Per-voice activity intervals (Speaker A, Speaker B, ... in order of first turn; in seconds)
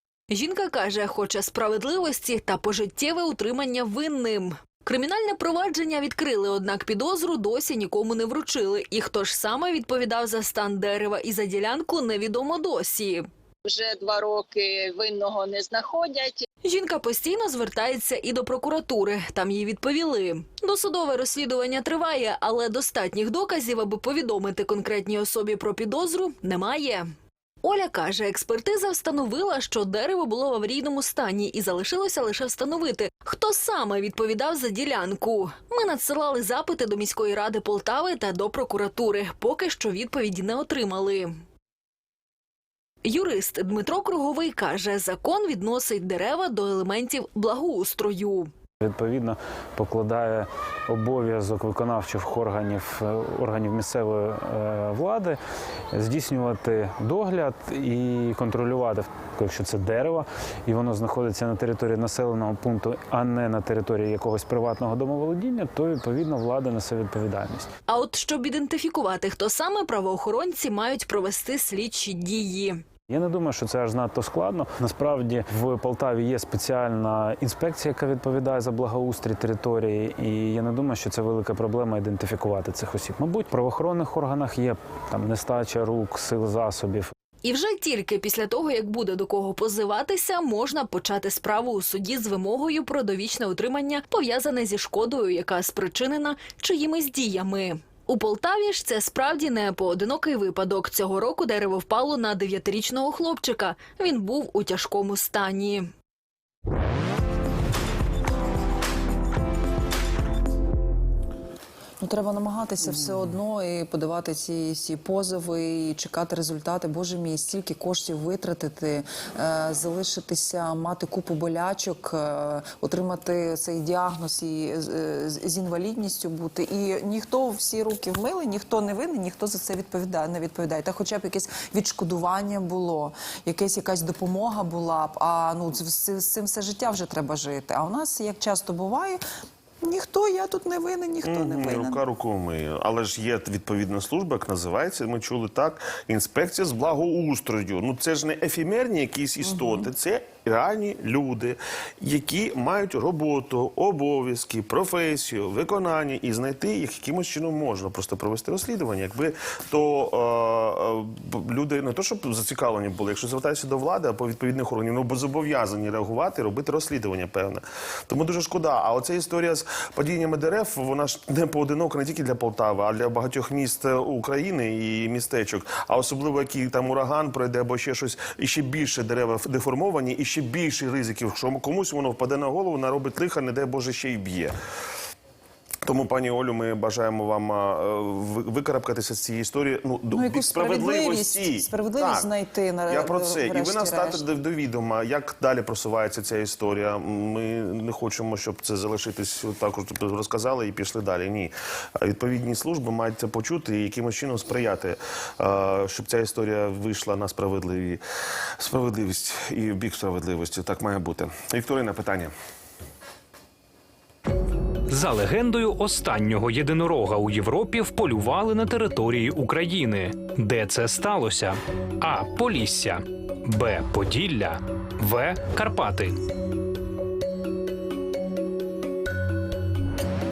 Speaker A: 0.3-13.2, 16.6-27.1, 27.6-41.3, 43.0-48.5, 67.9-72.8, 87.4-105.9
Speaker B: 13.6-16.4
Speaker C: 48.8-55.4, 55.9-67.7, 73.1-87.1
Speaker D: 112.0-139.2, 139.8-142.0, 149.4-149.8, 190.1-194.2
Speaker E: 141.2-184.5, 185.8-192.3, 192.9-208.0, 208.6-212.3
Speaker F: 214.9-226.2